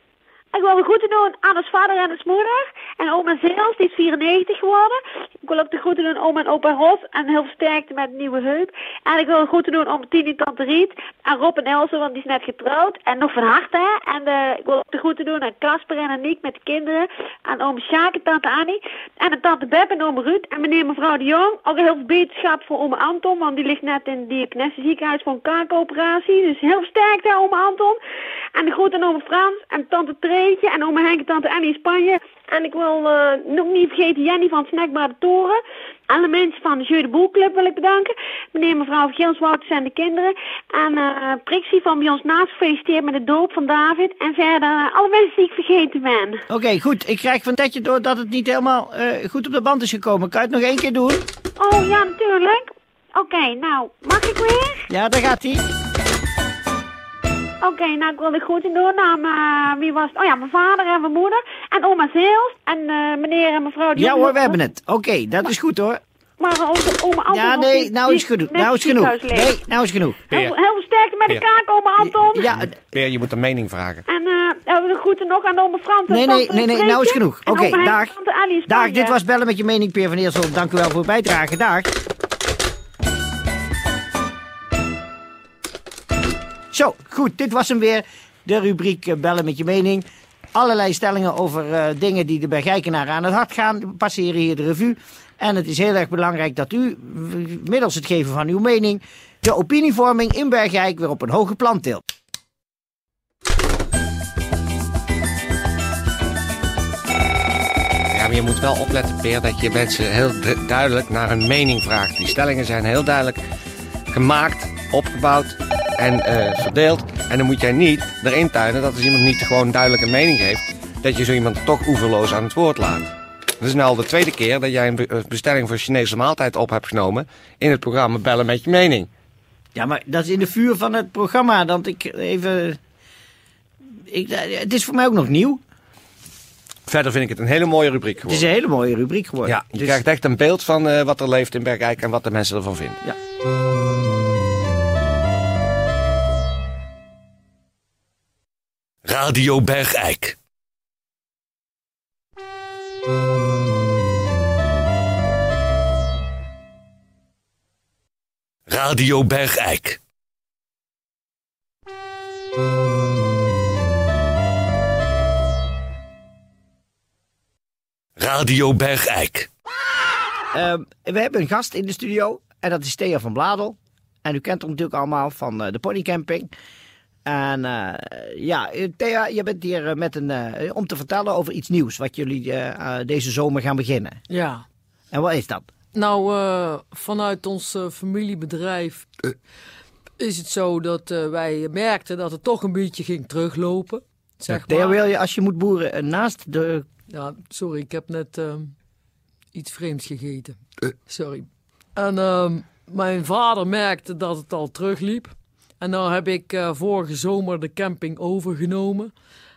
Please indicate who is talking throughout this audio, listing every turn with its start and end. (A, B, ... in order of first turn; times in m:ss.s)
0:00.5-0:28.0 A
0:28.6-0:35.6 A
0:36.1-0:46.4 A
0:46.5-0:51.2 B
0:51.6-0:54.9 A
0:54.9-0:55.6 B
0:57.6-1:04.6 A
1:04.0-1:06.0 B
1:06.4-1:09.5 A
1:07.3-1:10.2 B
1:10.3-1:10.6 C
1:10.3-1:12.5 A
1:12.2-1:12.7 B
1:12.5-1:14.0 C
1:14.1-1:19.2 A
1:16.1-1:18.1 B
1:18.7-1:21.9 B
1:26.7-1:42.0 B
1:48.1-1:53.4 C
1:54.1-2:09.1 C
2:09.8-2:12.8 B
2:14.1-2:15.6 B
2:16.9-2:18.4 C
2:18.2-2:20.0 B
2:19.4-2:23.0 C
2:29.1-2:30.4 D
2:38.7-2:40.0 D
2:48.2-2:49.5 D
2:50.5-2:56.5 B
2:57.3-3:04.2 B
3:04.3-3:04.6 E
3:05.1-3:05.7 B
3:05.9-3:09.3 E
3:10.2-3:15.0 E
3:14.5-3:16.9 B
3:17.1-3:18.7 E
3:19.5-3:29.1 E